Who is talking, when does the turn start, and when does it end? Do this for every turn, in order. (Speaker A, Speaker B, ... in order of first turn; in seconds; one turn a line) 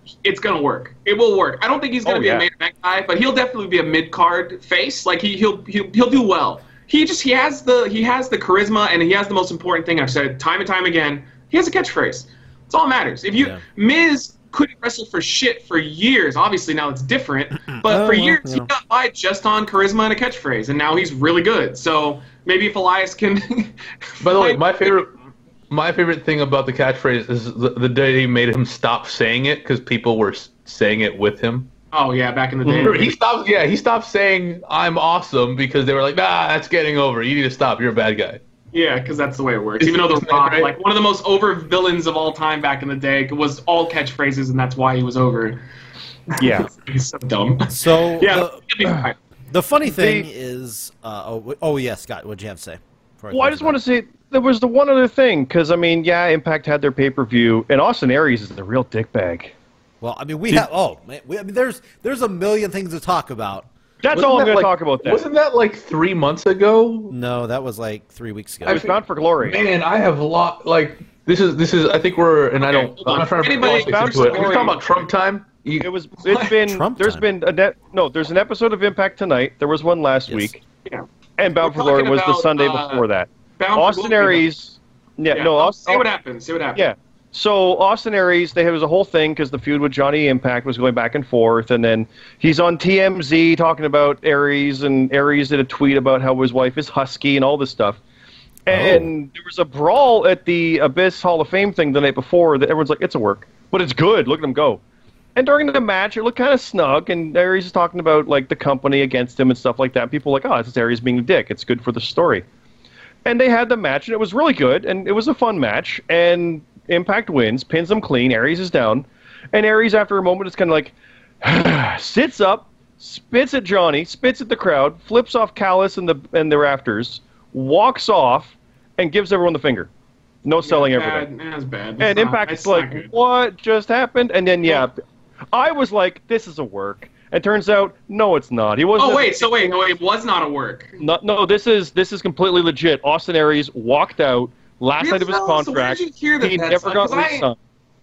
Speaker A: 0.2-24.9
Speaker B: 2.0-2.5
Speaker C: 17.7-18.7
Speaker D: 24.2-25.1
Speaker D: 25.7-31.7
Speaker A: 31.9-33.1
Speaker D: 32.7-38.4
Speaker A: 38.7-45.6
Speaker D: 39.8-40.7
Speaker A: 46.3-49.1
Speaker B: 46.4-46.7
Speaker C: 47.7-48.6
Speaker C: 49.5-53.8
Speaker B: 49.9-50.3
Speaker B: 53.3-59.5
Speaker C: 60.0-63.7
Speaker B: 64.0-65.2
Speaker D: 64.1-67.1
Speaker C: 67.1-68.8
Speaker B: 68.7-69.6
Speaker D: 68.7-75.9
Speaker A: 72.6-74.9
Speaker B: 73.5-74.8
Speaker B: 75.8-80.6
Speaker A: 76.2-76.5
Speaker C: 76.7-77.2
Speaker B: 81.4-86.0
Speaker A: 81.6-83.0
Speaker A: 83.6-84.5
Speaker A: 85.3-86.8
Speaker B: 86.7-98.0
Speaker B: 98.7-104.8
Speaker C: 98.7-99.1
Speaker B: 105.3-112.4
Speaker B: 113.2-129.9
Speaker B: 130.4-131.3
Speaker A: 130.6-133.1
Speaker B: 132.0-135.0
Speaker B: 135.5-139.5
Speaker A: 139.0-141.0
Speaker B: 141.0-147.6
Speaker A: 145.0-147.5